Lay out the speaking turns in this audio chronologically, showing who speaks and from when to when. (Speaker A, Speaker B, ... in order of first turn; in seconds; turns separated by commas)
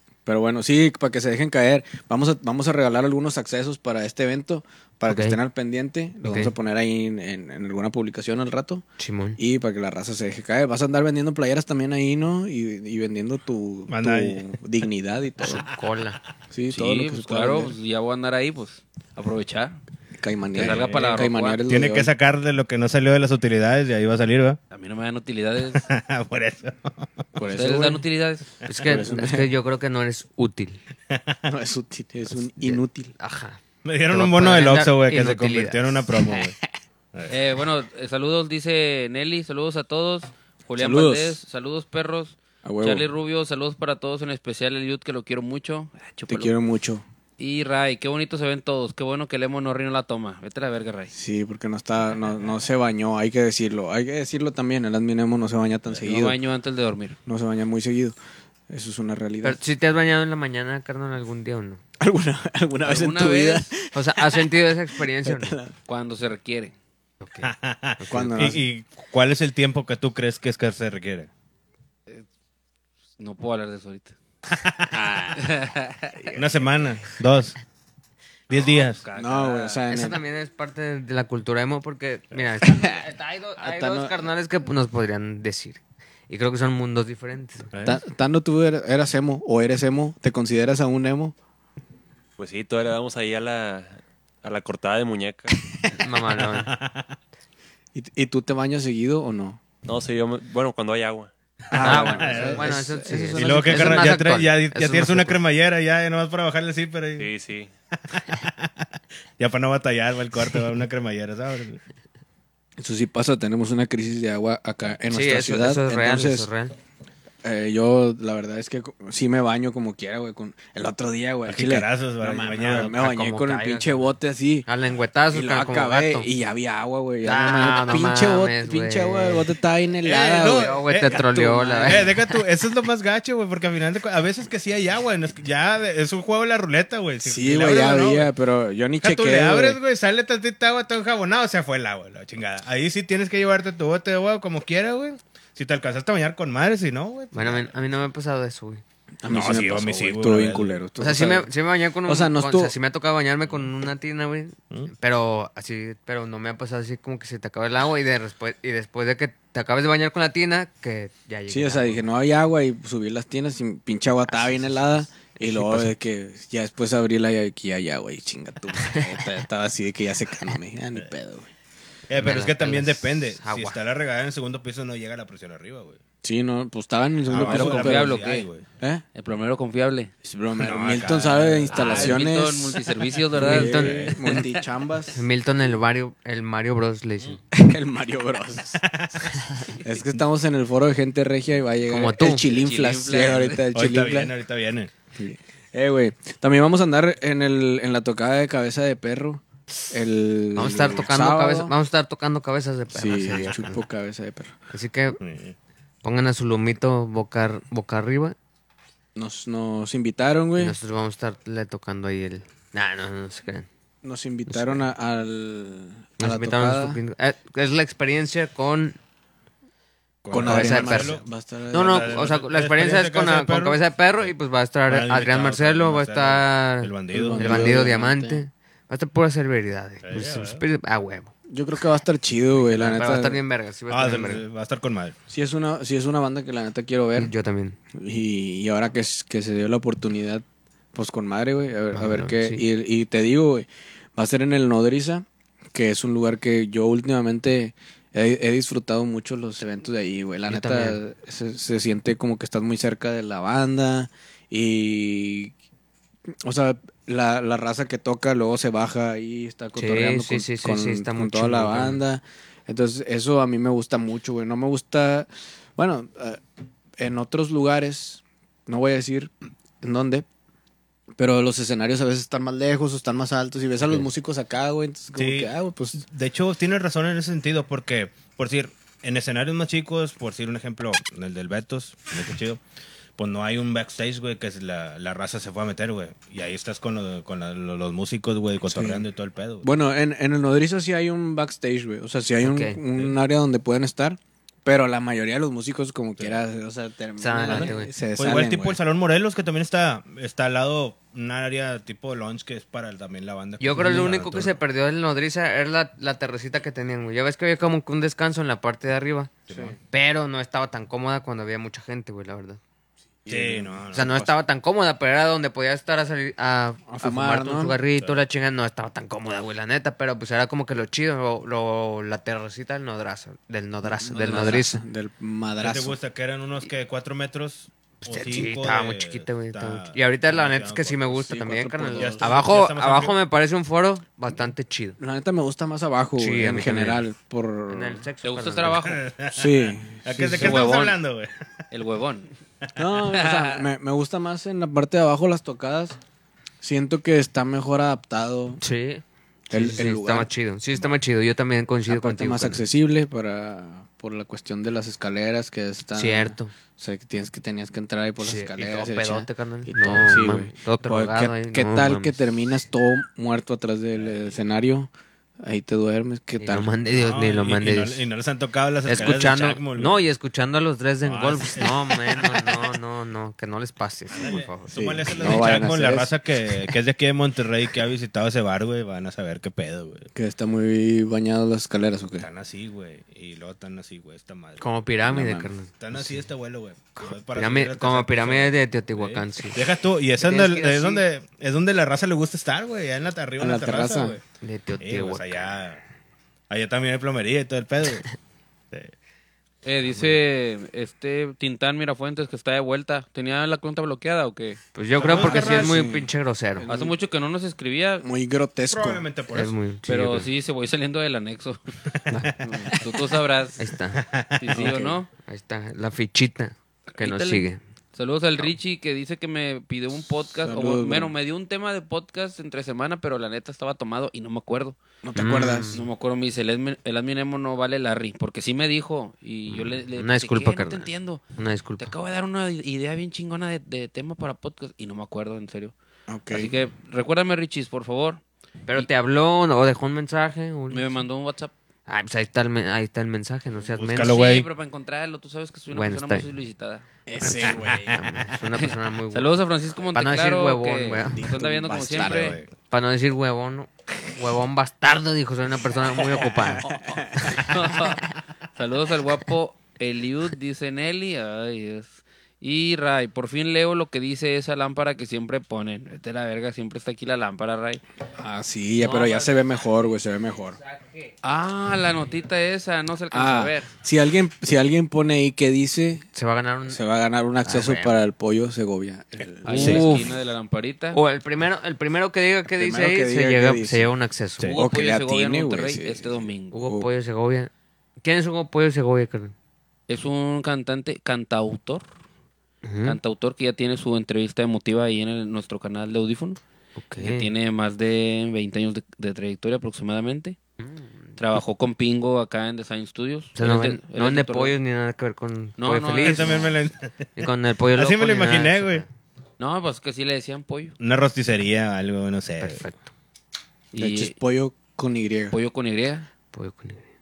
Speaker A: 0.3-8.8, Speaker B: 5.1-5.4, Speaker B: 6.2-6.5, Speaker B: 9.0-9.4, Speaker A: 9.4-15.7, Speaker C: 13.9-14.5, Speaker B: 15.4-16.2, Speaker A: 16.5-17.8, Speaker D: 16.7-19.8, Speaker A: 20.2-22.1, Speaker D: 20.6-21.6, Speaker C: 20.6-24.6, Speaker D: 24.7-25.9, Speaker C: 25.7-27.2, Speaker A: 27.4-28.0, Speaker D: 27.5-28.6, Speaker B: 28.7-30.8, Speaker A: 28.9-29.5, Speaker C: 31.1-31.4, Speaker A: 31.5-33.1, Speaker B: 32.3-33.6, Speaker C: 33.9-36.5, Speaker B: 34.1-36.4, Speaker D: 37.3-46.5, Speaker A: 40.8-41.4, Speaker A: 42.6-43.1, Speaker A: 46.3-47.0, Speaker D: 47.4-51.1, Speaker A: 51.1-56.4, Speaker D: 55.9-57.2, Speaker A: 57.3-58.1, Speaker A: 58.7-59.6, Speaker B: 59.4-61.8, Speaker A: 62.0-65.7, Speaker D: 62.9-63.7, Speaker B: 63.9-65.5, Speaker D: 65.9-66.8, Speaker B: 67.2-68.5, Speaker C: 67.4-71.3, Speaker A: 68.1-68.6, Speaker D: 73.2-74.2, Speaker A: 74.9-75.5, Speaker D: 75.4-76.4, Speaker C: 76.3-77.6, Speaker C: 78.5-79.0, Speaker D: 78.5-79.8, Speaker A: 79.2-80.2, Speaker B: 79.9-87.7, Speaker A: 82.6-83.0, Speaker A: 83.6-84.2, Speaker C: 87.7-88.0, Speaker A: 87.8-91.3, Speaker E: 92.4-95.6, Speaker B: 96.0-96.7, Speaker C: 96.3-97.2, Speaker A: 98.0-99.6, Speaker E: 99.8-101.3, Speaker A: 101.7-104.1, Speaker C: 101.8-102.8, Speaker B: 101.8-105.4, Speaker C: 103.3-107.3, Speaker E: 107.2-107.7, Speaker C: 108.1-111.8, Speaker A: 112.8-116.5, Speaker B: 115.1-116.7, Speaker A: 117.4-124.7, Speaker C: 121.5-123.0, Speaker B: 122.7-124.1, Speaker B: 124.7-126.3, Speaker A: 125.3-132.1, Speaker B: 127.2-129.5, Speaker C: 130.0-138.3, Speaker B: 130.4-132.4, Speaker A: 137.2-139.8, Speaker C: 139.0-147.7, Speaker B: 147.3-148.8, Speaker A: 149.2-151.5, Speaker C: 149.3-150.8, Speaker B: 151.0-162.0, Speaker A: 152.1-152.7, Speaker A: 161.5-171.5, Speaker B: 164.3-165.9, Speaker B: 168.8-169.0, Speaker C: 172.1-176.0, Speaker B: 172.2-173.8, Speaker A: 176.2-178.2, Speaker C: 177.3-178.7, Speaker D: 177.3-178.5, Speaker D: 179.2-180.1, Speaker A: 180.2-182.8, Speaker C: 180.6-182.2, Speaker D: 181.7-184.4, Speaker A: 183.3-185.2, Speaker C: 183.3-184.2, Speaker B: 183.4-184.4, Speaker B: 185.1-187.4, Speaker A: 187.5-188.8, Speaker C: 188.8-189.4, Speaker A: 189.8-194.3, Speaker B: 191.9-192.4, Speaker D: 192.4-193.7, Speaker C: 193.7-194.9, Speaker A: 195.2-201.7, Speaker B: 200.6-203.8, Speaker A: 202.9-204.5, Speaker B: 204.7-205.2, Speaker C: 205.2-205.6, Speaker B: 206.0-208.4, Speaker A: 209.2-210.8, Speaker B: 210.6-213.7, Speaker A: 214.0-217.0, Speaker B: 214.5-214.8, Speaker B: 216.2-219.0, Speaker C: 220.2-224.3, Speaker A: 220.3-222.3, Speaker B: 220.3-221.2, Speaker B: 221.7-231.3, Speaker C: 224.9-227.8, Speaker A: 227.1-228.4, Speaker C: 230.0-230.6, Speaker A: 231.5-233.4, Speaker B: 232.6-234.4, Speaker C: 233.9-235.2, Speaker A: 235.3-237.3, Speaker B: 237.2-237.8, Speaker A: 237.9-255.5, Speaker B: 241.9-242.6, Speaker B: 250.5-251.0, Speaker A: 256.4-266.4, Speaker B: 259.8-262.0, Speaker A: 267.0-270.3, Speaker A: 271.2-276.0, Speaker C: 275.1-282.6, Speaker C: 283.2-289.7, Speaker A: 288.6-289.1, Speaker A: 289.6-298.8, Speaker B: 292.4-292.8, Speaker B: 297.2-297.9, Speaker C: 297.5-304.6, Speaker B: 303.6-309.3, Speaker C: 309.5-309.8, Speaker A: 309.5-309.8, Speaker B: 309.9-312.6, Speaker A: 313.2-314.3, Speaker C: 313.3-314.3, Speaker B: 313.9-324.8, Speaker A: 316.9-317.8, Speaker C: 318.0-318.2, Speaker A: 323.9-326.0, Speaker C: 325.6-331.1, Speaker B: 328.1-335.0, Speaker A: 331.1-332.4, Speaker C: 332.0-333.2, Speaker A: 335.0-338.1, Speaker B: 336.2-337.0, Speaker B: 337.7-338.9, Speaker D: 338.2-339.0, Speaker C: 338.8-341.3, Speaker A: 339.3-340.6, Speaker D: 340.3-341.0, Speaker D: 341.7-342.3, Speaker A: 342.8-346.0, Speaker D: 343.1-343.6, Speaker A: 346.6-348.6, Speaker B: 348.6-352.6, Speaker A: 349.5-350.3, Speaker A: 351.9-364.9, Speaker B: 356.0-356.5, Speaker B: 358.2-362.2, Speaker A: 365.4-366.7, Speaker B: 366.4-368.0, Speaker C: 366.9-370.0, Speaker B: 368.9-375.7, Speaker C: 371.0-372.6, Speaker C: 374.1-380.1, Speaker A: 374.8-376.1, Speaker A: 380.1-382.3, Speaker C: 382.2-384.6, Speaker B: 384.6-386.2, Speaker A: 385.1-385.5, Speaker C: 385.8-394.2, Speaker B: 387.3-389.6, Speaker B: 390.2-391.0, Speaker A: 393.4-394.2, Speaker B: 394.4-395.5, Speaker C: 394.8-395.8, Speaker C: 396.5-398.1, Speaker D: 399.6-404.6, Speaker B: 404.8-406.7, Speaker C: 405.0-405.9, Speaker A: 405.1-407.0, Speaker D: 406.7-408.1, Speaker A: 408.0-409.1, Speaker C: 408.7-409.6, Speaker B: 409.3-410.3, Speaker D: 409.9-411.6, Speaker C: 412.1-412.3, Speaker B: 412.1-412.4, Speaker D: 412.4-413.7, Speaker B: 413.6-414.0, Speaker C: 413.9-414.6, Speaker D: 414.4-415.1, Speaker A: 414.5-415.0, Speaker B: 415.2-417.6, Speaker D: 417.0-424.8, Speaker A: 420.4-421.1, Speaker A: 425.0-425.8, Speaker B: 425.1-425.8, Speaker D: 425.7-431.2, Speaker B: 429.5-431.9, Speaker D: 431.8-435.7, Speaker A: 436.1-436.5, Speaker D: 436.3-438.2, Speaker B: 438.7-440.9, Speaker D: 440.7-441.5, Speaker B: 441.9-444.2, Speaker C: 443.7-444.5, Speaker D: 443.9-447.6, Speaker B: 445.7-446.3, Speaker A: 447.1-448.0, Speaker B: 447.2-449.3, Speaker C: 447.5-448.0, Speaker D: 448.5-452.4, Speaker B: 449.9-451.4, Speaker A: 451.1-452.4, Speaker C: 452.0-452.5, Speaker B: 452.7-457.5, Speaker A: 456.5-457.5, Speaker D: 456.7-467.8, Speaker A: 468.2-470.6, Speaker B: 468.8-469.7, Speaker B: 470.7-471.1, Speaker D: 471.2-473.7, Speaker A: 473.1-476.1, Speaker B: 476.1-476.8, Speaker A: 476.7-480.0, Speaker B: 477.5-478.0, Speaker D: 479.4-481.0, Speaker C: 479.5-479.9, Speaker B: 479.5-480.2, Speaker B: 480.9-484.6, Speaker A: 482.5-483.9, Speaker D: 484.5-486.6, Speaker A: 484.5-486.9, Speaker B: 486.5-487.5, Speaker B: 488.0-489.3, Speaker D: 489.9-491.9, Speaker B: 492.6-493.0, Speaker D: 492.8-496.4, Speaker B: 496.8-497.3, Speaker D: 497.0-500.4, Speaker D: 501.2-504.5, Speaker B: 503.4-506.5, Speaker D: 505.6-506.5, Speaker C: 506.0-508.9, Speaker B: 507.2-508.9, Speaker D: 509.4-510.8, Speaker C: 510.8-512.6, Speaker B: 512.4-512.9, Speaker D: 513.7-514.1, Speaker A: 513.8-515.4, Speaker D: 515.3-516.1, Speaker B: 516.3-516.8